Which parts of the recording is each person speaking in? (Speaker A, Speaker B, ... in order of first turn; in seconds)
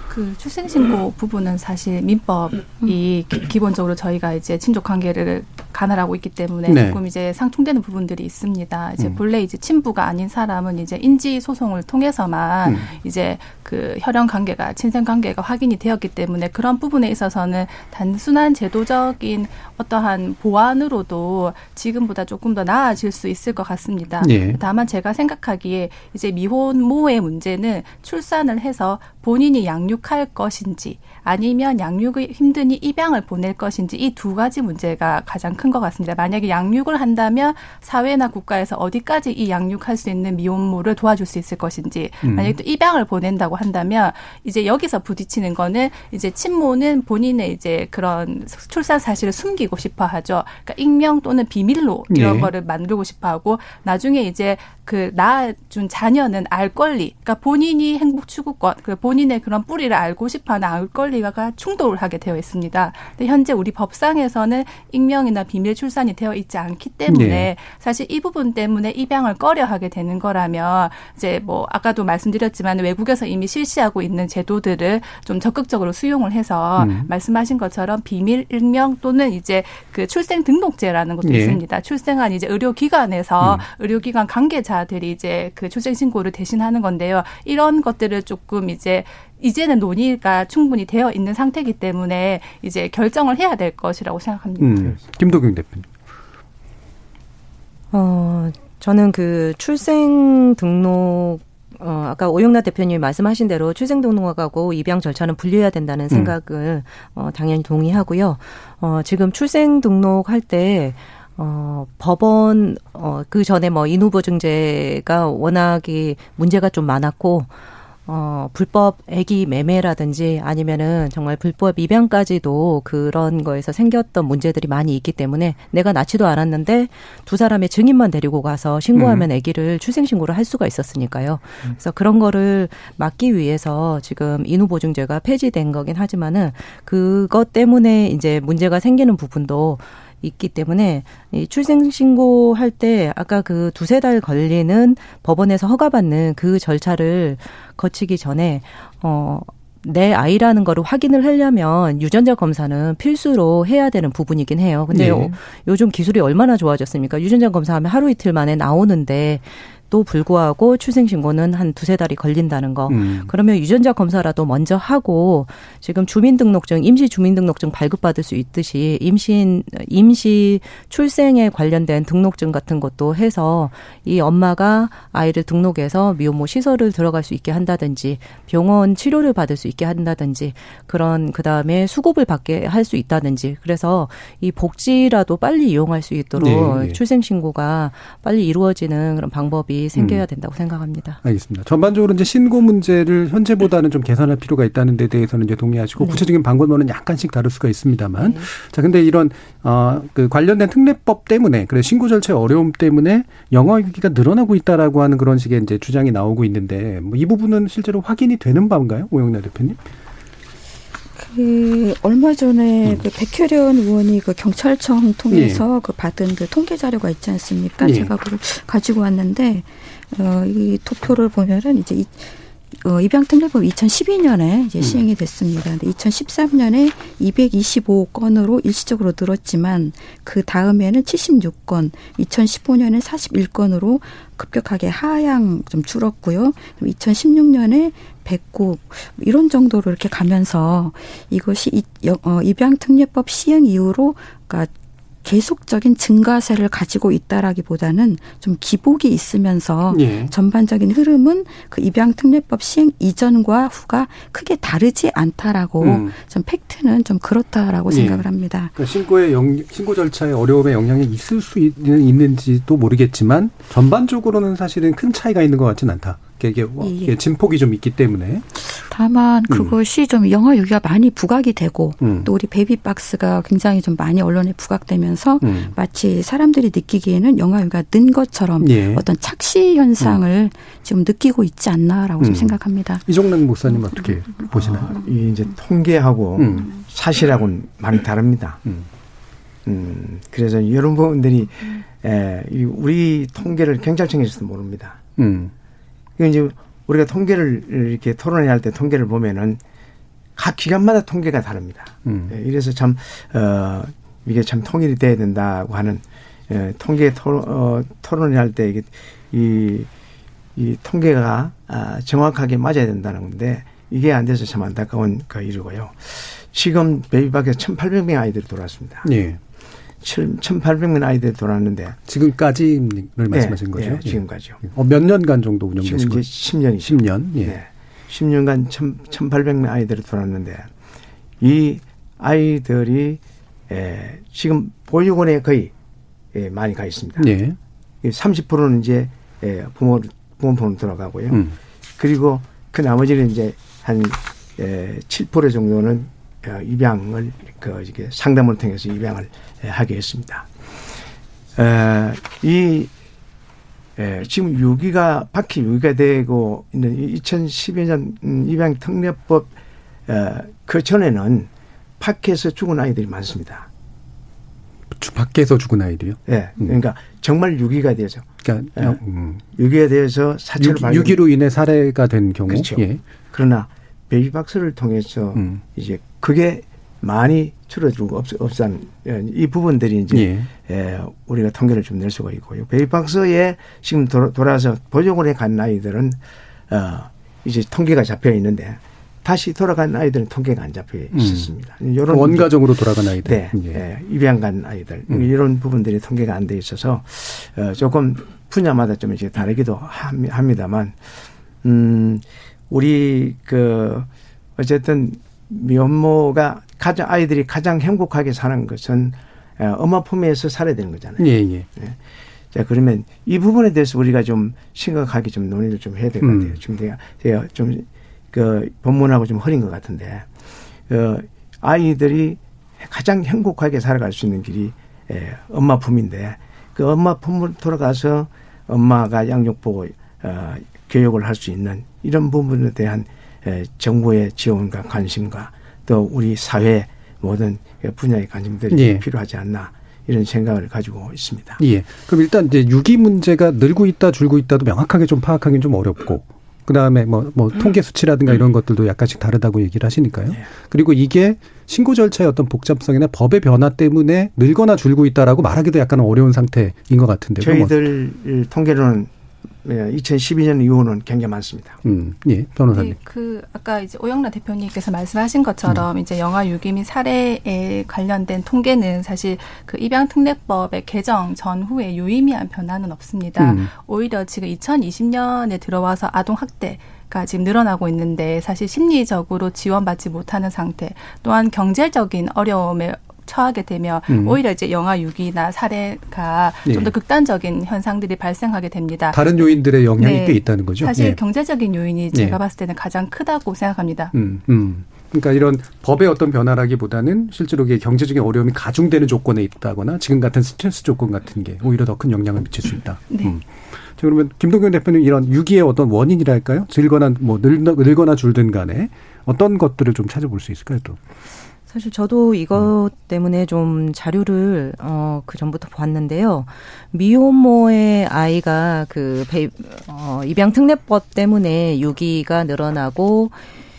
Speaker A: 0.1-95.0, 462.7-494.1, 503.1-503.4
Speaker B: 6.7-7.0, 12.7-12.9, 24.2-24.6, 42.2-42.6, 52.1-52.5, 67.1-67.5, 76.8-77.1, 81.2-81.6, 94.6-95.9, 128.9-129.3, 154.9-155.3, 162.9-163.3, 186.4-187.0, 190.0-190.2, 191.2-209.8, 215.3-215.6, 217.8-218.1, 249.9-250.3, 255.8-256.1, 257.9-268.5, 272.0-272.3, 275.4-275.7, 278.6-279.1, 282.2-284.9, 286.4-286.7, 295.2-295.5, 302.1-302.3, 319.0-319.4, 322.1-326.2, 326.8-327.6, 337.2-337.6, 364.9-366.7, 368.4-369.4, 370.6-373.0, 375.4-375.6, 380.1-380.5, 391.1-391.5, 392.1-393.8, 411.2-411.7, 416.2-416.6, 438.7-439.1, 441.6-457.8, 461.8-463.0, 473.4-473.7, 484.1-484.4, 486.7-486.9, 489.1-491.2, 494.1-511.0
Speaker C: 97.9-117.5, 118.1-191.2, 198.2-198.5, 511.7-523.5
Speaker D: 211.2-244.7, 245.2-258.7, 266.8-267.1, 268.7-283.1, 283.7-285.0
Speaker E: 284.7-288.6, 289.7-295.0, 296.2-299.6, 300.4-309.9, 310.6-319.1, 320.0-322.0, 323.3-324.6, 325.8-330.7, 331.4-335.7, 336.3-337.3, 338.0-341.4, 342.0-350.5, 351.6-352.9, 354.0-359.5, 360.1-361.5, 362.0-363.7, 366.3-369.0, 369.6-371.2, 372.5-386.2, 386.7-392.5, 393.2-401.0, 401.6-412.0, 412.5-420.3, 420.9-441.6, 457.4-459.1, 459.6-461.8